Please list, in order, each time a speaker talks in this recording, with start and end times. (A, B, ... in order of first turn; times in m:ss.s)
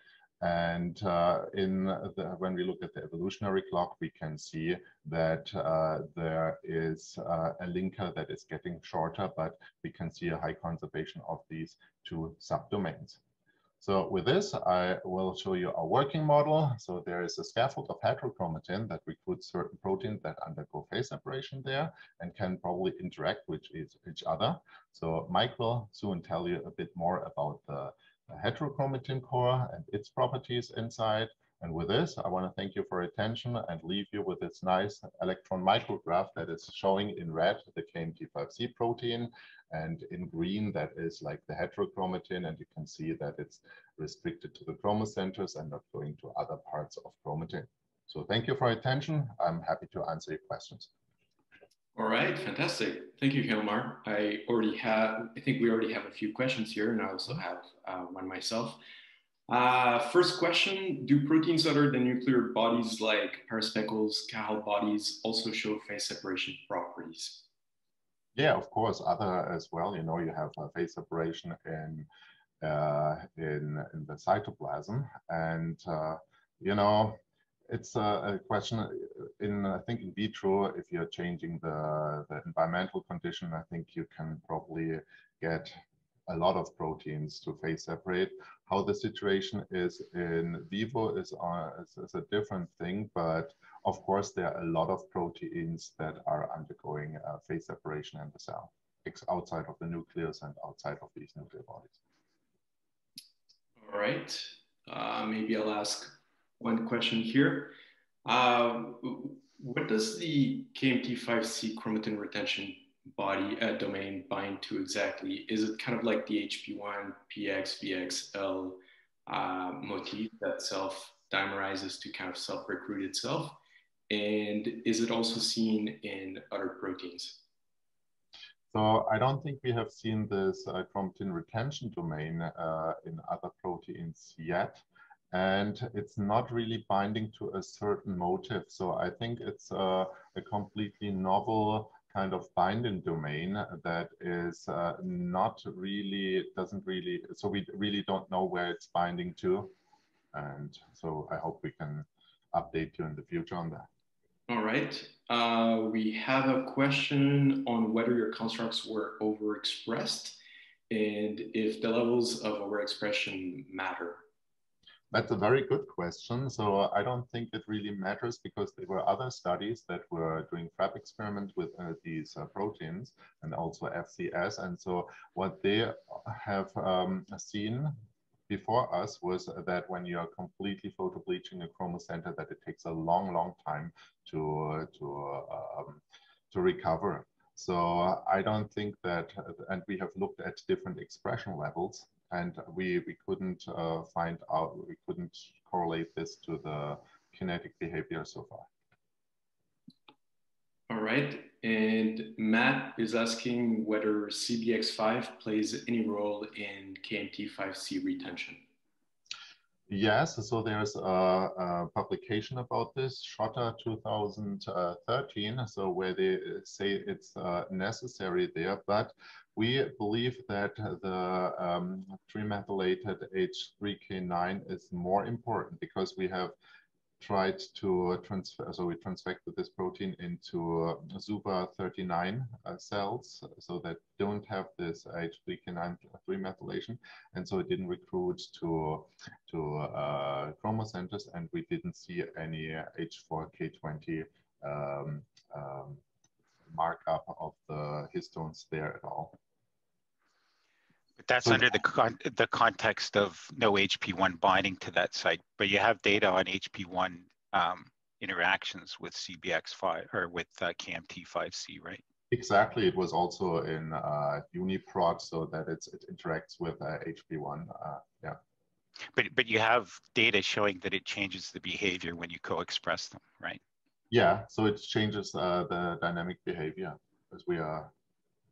0:00.4-0:13.2 A
0:13.8-0:50.9 A
0:51.9-0:58.8 B
0:59.5-1:07.5 B
1:08.4-1:12.1 A
1:12.6-1:42.0 A
1:43.8-2:03.6 B
2:04.1-2:07.4 B
2:08.7-2:29.7 A
2:30.3-2:33.9 A
2:34.5-2:44.2 B
2:45.1-2:57.9 A
2:58.5-3:18.7 A
3:20.9-3:28.6 B
3:29.9-3:46.5 A
3:47.2-4:06.0 A
4:06.7-4:09.4 A
4:11.2-4:22.0 C
4:22.3-4:28.4 A
4:29.1-4:33.6 C
4:34.1-4:37.9 A